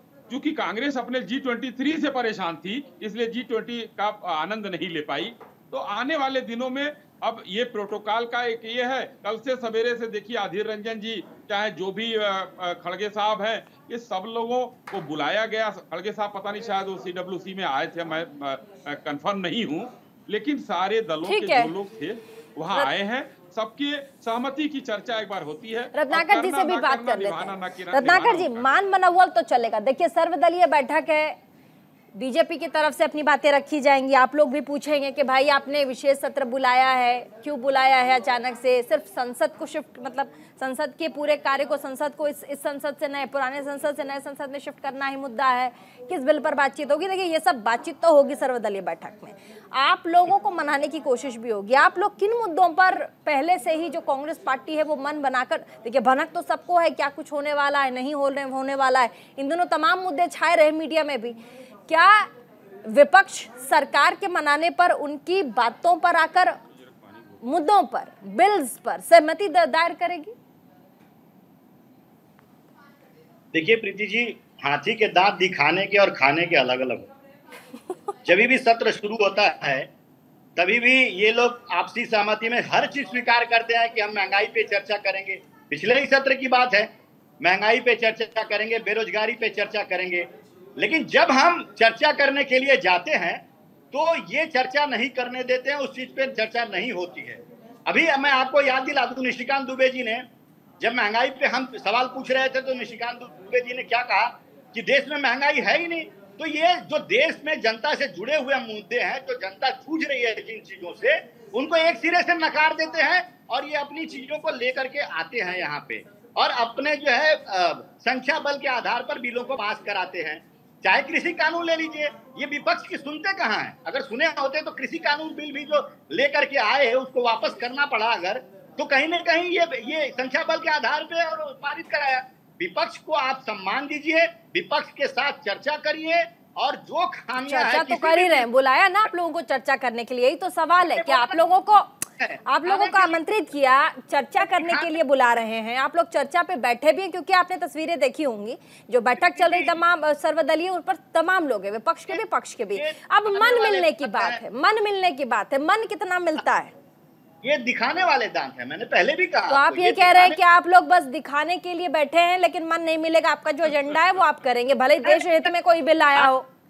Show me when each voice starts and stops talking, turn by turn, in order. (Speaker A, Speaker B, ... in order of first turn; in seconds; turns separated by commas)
Speaker A: 0.3-28.6, Speaker B: 21.2-21.7, Speaker B: 25.9-31.4, Speaker B: 32.1-62.3, Speaker B: 62.8-66.6, Speaker A: 66.6-67.6, Speaker B: 67.4-70.3, Speaker C: 73.5-77.1, Speaker C: 78.2-79.9, Speaker C: 80.5-86.9, Speaker C: 87.4-100.2, Speaker C: 100.8-138.5, Speaker B: 137.4-156.7, Speaker C: 140.8-141.4, Speaker C: 142.2-143.2, Speaker C: 144.4-144.9, Speaker C: 149.2-149.8, Speaker C: 152.7-154.4, Speaker C: 157.4-160.4, Speaker B: 159.5-166.4, Speaker C: 165.0-165.5